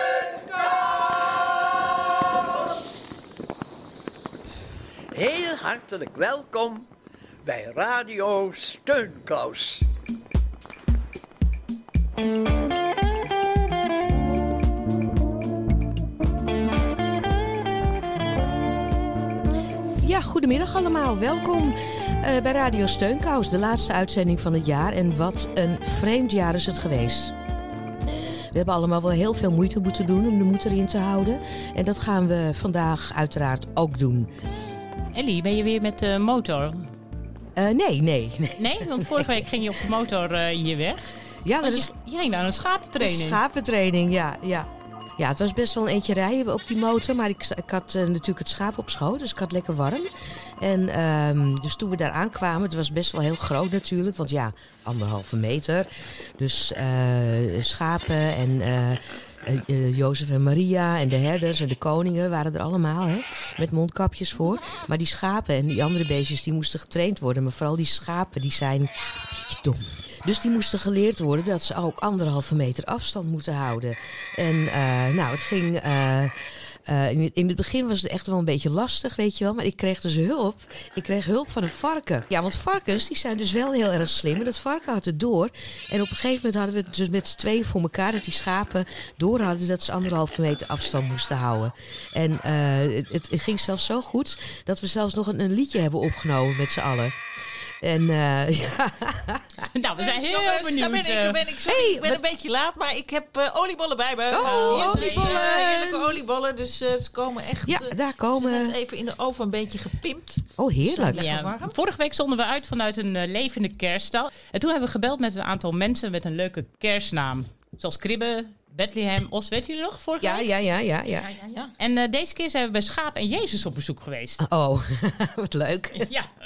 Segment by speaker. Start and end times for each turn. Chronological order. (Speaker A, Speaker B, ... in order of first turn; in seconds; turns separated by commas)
Speaker A: 5.1-6.9, Speaker A: 7.4-9.8, Speaker B: 20.0-27.3, Speaker B: 28.5-34.3, Speaker C: 35.1-36.9, Speaker B: 37.5-39.3, Speaker C: 38.6-41.0, Speaker B: 41.4-41.9, Speaker C: 41.6-43.4, Speaker B: 43.0-76.3, Speaker B: 76.8-97.2, Speaker B: 97.8-99.7, Speaker C: 99.7-101.5, Speaker D: 100.0-111.7, Speaker B: 101.7-102.2, Speaker B: 104.3-106.2, Speaker C: 104.4-105.4, Speaker B: 107.7-108.7, Speaker B: 110.6-111.2, Speaker C: 111.2-120.5, Speaker B: 120.2-121.3, Speaker C: 121.8-124.4, Speaker B: 124.4-126.1, Speaker C: 126.0-126.3